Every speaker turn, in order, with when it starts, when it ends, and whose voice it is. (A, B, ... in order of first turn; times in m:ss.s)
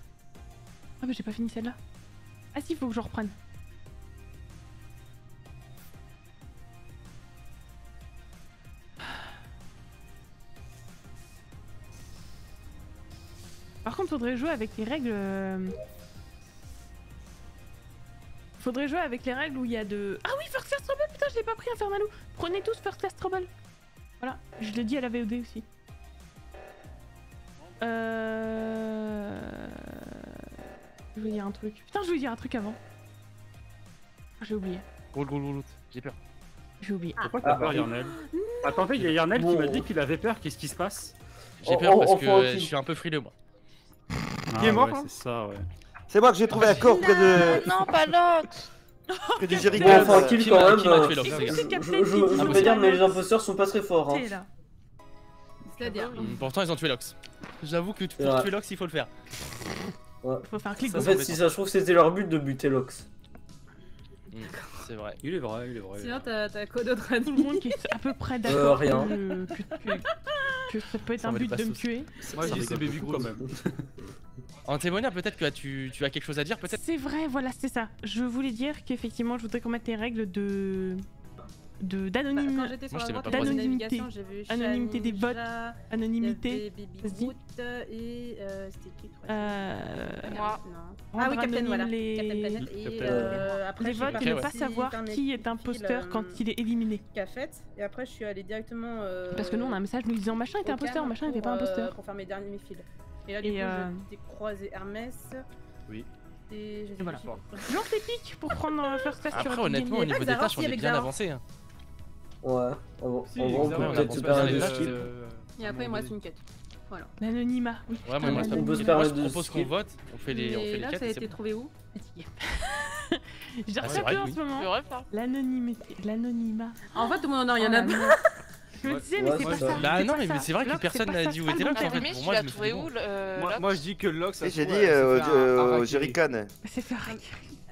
0:01.0-0:01.8 A
0:02.5-0:03.3 A
0:13.8-0:15.7 A
0:18.6-0:23.5 A
0:24.2-0:25.6 A
0:27.6-0:28.0 B
0:27.8-0:30.5 A
0:31.1-0:32.8 A
0:34.4-0:34.8 A
0:35.1-0:36.2 C
0:36.8-0:37.2 A
0:37.3-0:37.8 C
0:37.4-0:41.1 B
0:37.4-0:37.9 D
0:37.9-0:39.0 E
0:39.3-0:39.9 D
0:41.6-0:43.3 C
0:41.6-0:42.7 D
0:44.5-0:45.7 B
0:44.6-0:45.1 F
0:46.1-0:48.0 G
0:46.5-0:46.8 B
0:46.7-0:47.6 E
0:47.3-0:48.7 H
0:49.1-0:50.2 A
0:49.4-0:50.6 G
0:49.7-0:51.6 C
0:49.7-0:54.3 D
0:51.2-0:53.2 A
0:52.4-0:52.8 C
0:54.1-0:54.5 A
0:55.7-0:56.4 E
0:55.8-0:56.2 A
0:56.1-0:59.1 C
0:58.2-0:58.5 D
1:00.2-1:03.0 D
1:00.4-1:01.4 A
1:00.9-1:01.4 C
1:04.3-1:05.2 C
1:05.2-1:06.3 B
1:05.9-1:07.8 E
1:07.3-1:10.0 A
1:08.4-1:09.1 D
1:08.5-1:08.9 E
1:10.7-1:12.1 A
1:11.2-1:12.7 C
1:12.3-1:13.4 F
1:12.3-1:13.8 B
1:14.6-1:16.8 C
1:16.7-1:21.0 A
1:21.8-1:27.3 A
1:22.3-1:36.4 E
1:22.9-1:23.6 C
1:29.3-1:30.4 A
1:30.3-1:30.6 H
1:31.1-1:32.6 A
1:32.6-1:33.6 B
1:33.0-1:33.4 D
1:33.7-1:37.0 A
1:34.1-1:34.5 C
1:37.1-1:39.8 E
1:39.3-1:41.9 A
1:40.6-1:45.4 E
1:43.4-1:44.0 A
1:46.5-1:47.7 E
1:47.0-1:50.2 A
1:49.3-1:51.4 C
1:50.0-1:51.1 E
1:52.4-1:55.0 D
1:53.3-1:56.2 F
1:53.5-1:55.0 C
1:55.6-1:57.1 E
1:57.2-1:59.0 A
1:58.0-2:01.4 C
1:58.2-1:59.7 D
2:00.3-2:01.7 E
2:01.9-2:08.2 A
2:03.8-2:04.4 C
2:04.4-2:05.1 H
2:06.9-2:08.3 E
2:08.8-2:09.9 F
2:08.8-2:12.1 A
2:09.2-2:09.8 D
2:09.8-2:12.9 C
2:11.6-2:13.8 H
2:13.3-2:16.2 F
2:14.4-2:16.5 G
2:16.6-2:17.5 A